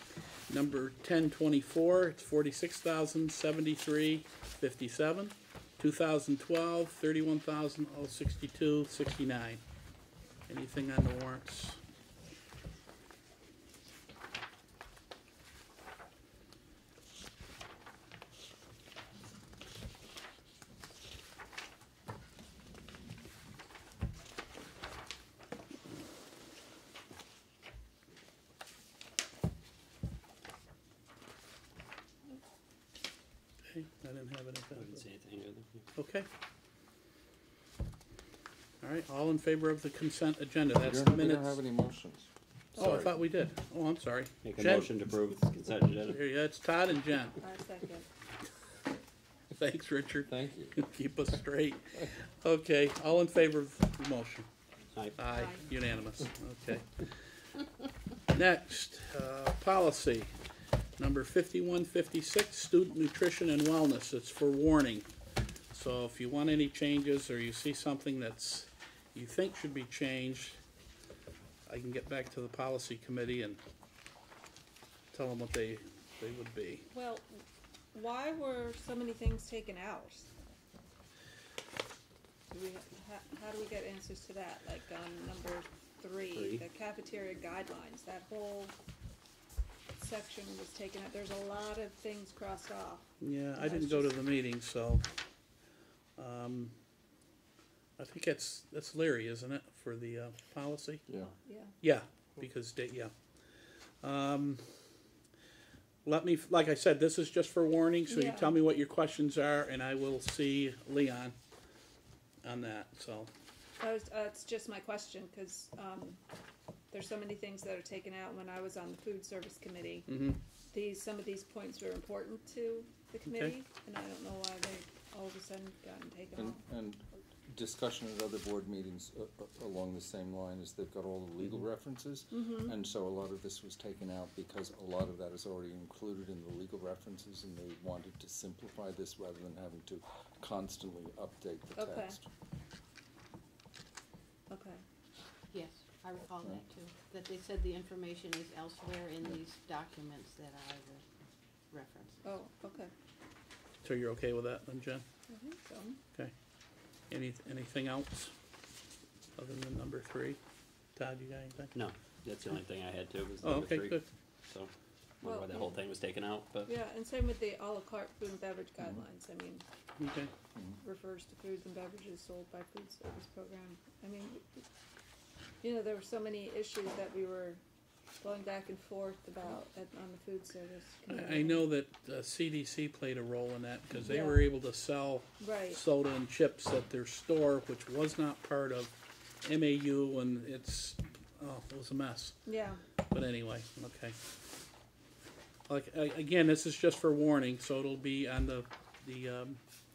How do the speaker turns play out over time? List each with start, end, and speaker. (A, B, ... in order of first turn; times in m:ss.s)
0:00.5-0:09.6 A
0:10.5-0:11.8 A
0:33.7-0:35.0 A
0:34.8-0:35.8 B
0:36.0-0:36.3 A
0:38.8-0:41.6 A
0:40.8-0:43.2 C
0:42.8-0:44.9 A
0:44.4-0:46.2 B
0:46.1-0:47.4 A
0:47.4-0:48.0 D
0:49.5-0:54.5 A
0:50.3-0:50.7 C
0:55.2-0:57.0 A
0:58.3-1:00.3 A
1:01.0-1:05.1 A
1:05.7-1:10.6 A
1:11.7-1:13.6 A
1:15.1-1:16.9 A
1:16.9-1:17.3 D
1:17.9-1:20.3 D
1:22.5-1:28.8 D
1:26.3-1:26.6 B
1:30.0-1:33.1 D
1:33.2-1:35.0 A
1:33.6-1:34.1 D
1:36.2-1:36.7 A
1:38.0-1:41.0 A
1:41.5-1:41.8 D
1:41.8-1:43.1 A
1:44.0-1:44.6 A
1:46.0-1:51.4 A
1:48.1-1:48.6 D
1:52.4-1:53.3 A
1:53.8-1:56.2 D
1:56.9-2:00.1 D
2:00.1-2:00.4 A
2:00.7-2:06.6 D
2:03.2-2:03.6 A
2:06.4-2:22.3 C
2:12.4-2:12.7 D
2:21.8-2:22.2 D
2:24.5-2:24.8 D
2:25.5-2:31.0 E
2:31.7-2:32.1 E
2:32.3-2:32.9 D
2:33.8-2:35.0 A
2:35.3-2:36.0 D
2:37.1-2:38.3 A
2:39.4-2:40.4 A
2:41.0-2:41.7 A
2:41.7-2:44.7 B
2:43.4-2:44.1 A
2:45.2-2:46.7 B
2:45.2-2:45.6 D
2:46.7-2:49.6 D
2:50.0-2:50.3 A
2:50.8-2:54.6 D
2:55.6-2:57.6 D
2:58.2-3:01.6 D
3:01.1-3:12.4 A
3:04.1-3:04.5 D
3:05.4-3:05.8 D
3:12.5-3:12.8 D
3:13.1-3:14.2 A
3:15.7-3:19.6 A